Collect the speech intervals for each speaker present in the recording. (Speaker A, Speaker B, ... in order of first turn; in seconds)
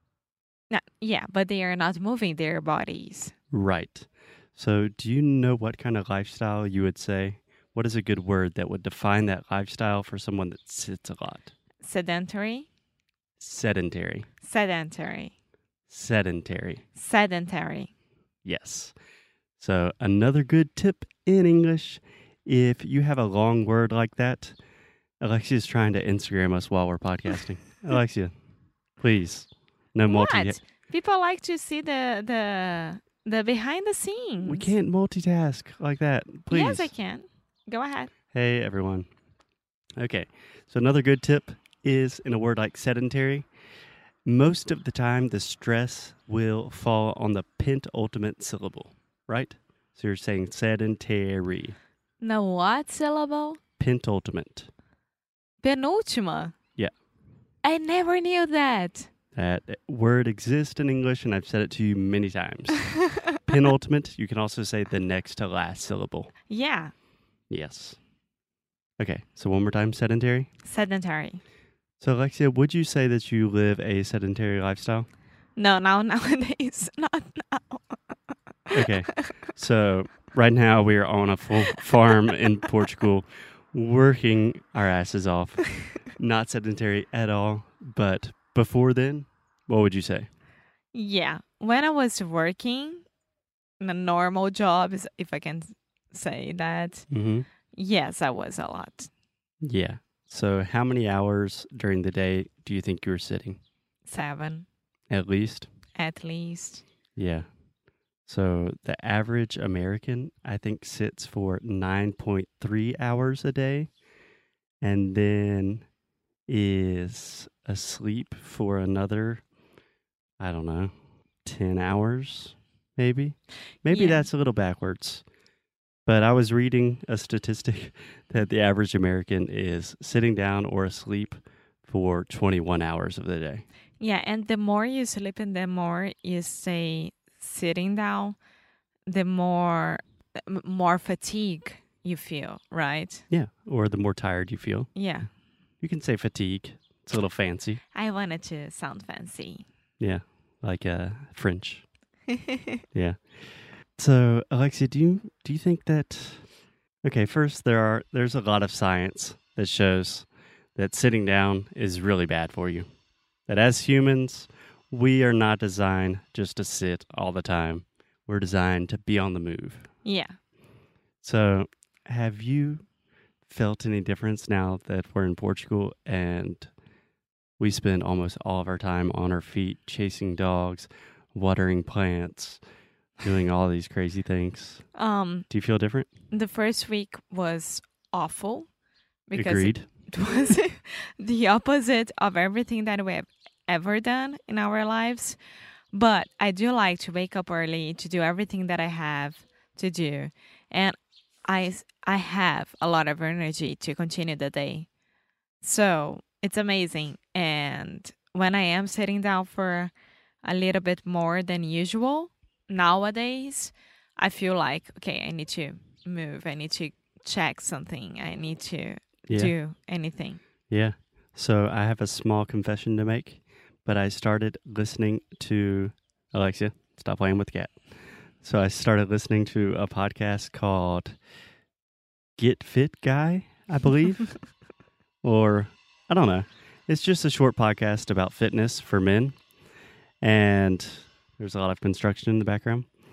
Speaker A: 0.7-3.3, 11.8-12.7, 14.4-15.3, 17.0-17.9, 30.1-34.7, 36.5-38.1, 52.2-53.6, 55.6-56.5, 57.6-59.1, 63.0-63.4, 66.5-66.9, 70.6-71.4, 75.6-78.0, 78.7-79.3, 90.9-93.0, 93.8-97.1, 97.7-99.1, 104.1-104.7, 106.0-106.8, 123.9-124.3, 134.0-138.4, 139.1-143.2, 144.9-145.3, 147.9-149.7, 152.3-152.8, 170.0-170.3, 184.9-185.5, 186.3-188.7, 189.3-195.4, 195.9-200.9, 201.5-204.9, 205.6-220.4
Speaker B: 3.5-11.5, 13.4-14.3, 15.9-16.8, 18.4-18.9, 19.6-24.6, 25.2-28.3, 29.0-30.7, 34.4-36.9, 38.3-39.1, 40.0-43.5, 44.2-51.8, 53.8-54.7, 59.3-62.9, 63.5-66.3, 67.5-68.0, 69.0-70.5, 72.0-75.1, 78.7-90.3, 97.1-97.5, 99.6-103.6, 105.1-105.7, 107.2-107.5, 108.2-113.9, 114.8-115.9, 116.5-119.4, 120.4-120.9, 121.4-125.2, 126.1-133.6, 143.3-144.9, 145.8-147.8, 150.0-151.9, 152.9-156.5, 157.0-162.9, 163.5-169.9, 171.2-172.9, 173.4-176.7, 177.6-182.6, 183.2-184.8, 185.5-186.1, 189.3-189.9, 219.3-219.6, 220.7-227.8, 228.4-231.2, 232.4-234.3, 235.2-239.4, 240.2-242.9